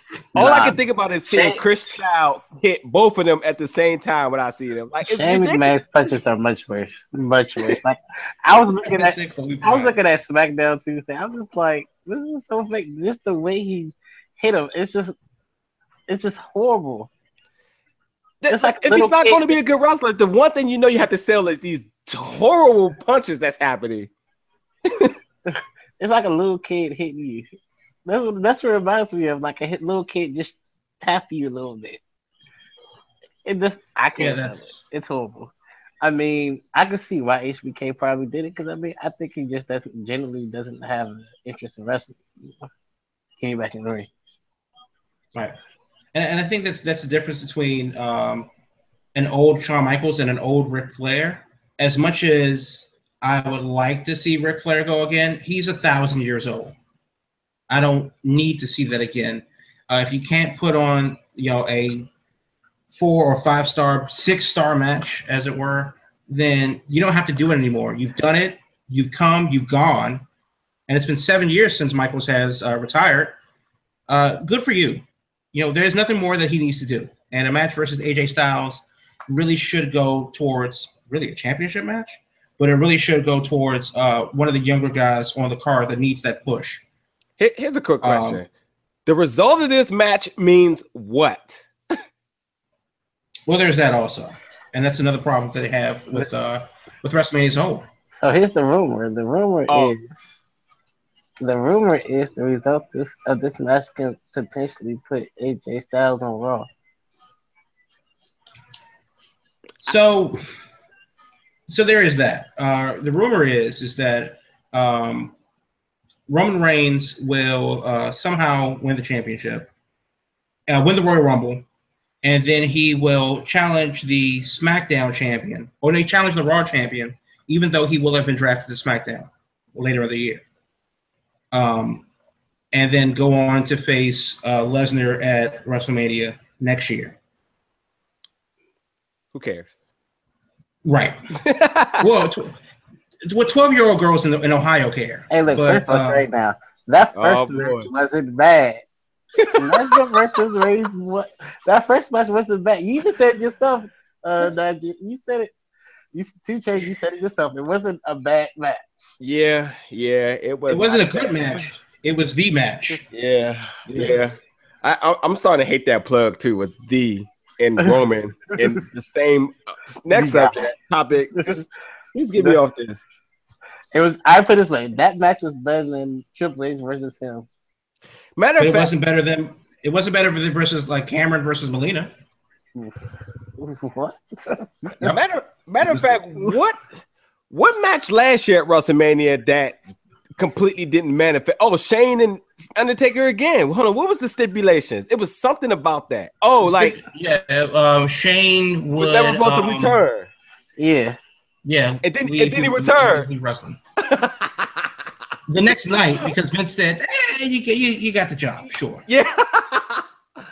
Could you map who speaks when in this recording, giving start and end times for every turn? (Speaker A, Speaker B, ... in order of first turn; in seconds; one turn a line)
Speaker A: 0.3-5.7
Speaker B: 0.4-0.7
Speaker B: 1.3-1.6
Speaker B: 5.0-15.2
Speaker C: 8.8-9.9
Speaker B: 16.1-17.1
Speaker A: 18.4-24.1
Speaker B: 18.5-19.4
Speaker B: 25.5-27.5
Speaker B: 28.1-32.0
Speaker B: 33.5-42.2
Speaker C: 34.2-34.8
Speaker B: 43.4-44.1
Speaker C: 46.1-48.5
Speaker C: 49.1-56.8
Speaker C: 57.7-62.1
Speaker C: 62.9-70.2
Speaker C: 70.9-73.4
Speaker C: 74.1-86.8
Speaker A: 87.4-88.5
Speaker C: 88.0-88.4
Speaker A: 89.1-91.7
Speaker C: 93.5-97.9
Speaker B: 98.1-100.4
Speaker A: 99.7-99.9
Speaker B: 101.4-106.7
Speaker C: 109.8-110.4
Speaker C: 111.7-115.3
Speaker C: 116.3-119.7
Speaker C: 120.7-121.7
Speaker C: 122.2-130.4
Speaker C: 131.5-132.1
Speaker C: 132.7-137.2
Speaker A: 139.3-139.8
Speaker C: 140.8-141.2
Speaker A: 141.4-142.1
Speaker C: 142.0-142.6
Speaker C: 143.2-146.2
Speaker B: 145.3-148.8
Speaker A: 147.2-147.9
Speaker A: 149.4-150.2
Speaker B: 149.5-155.5
Speaker B: 156.1-159.0
Speaker A: 159.2-161.6
Speaker C: 160.7-163.1
Speaker A: 163.1-173.0
Speaker C: 163.9-164.2
Speaker B: 170.1-170.6
Speaker B: 171.4-171.6
Speaker B: 173.9-177.5
Speaker A: 178.4-178.9
Speaker C: 178.6-182.1
Speaker B: 183.6-184.9
Speaker A: 185.0-186.8
Speaker C: 185.8-186.6
Speaker A: 187.5-189.8
Speaker A: 190.4-197.0
Speaker C: 196.6-200.0
Speaker A: 199.0-200.3
Speaker B: 200.8-201.2
Speaker C: 201.7-203.8
Speaker A: 202.0-203.3
Speaker A: 204.0-204.9
Speaker C: 205.5-209.1
Speaker A: 209.1-210.0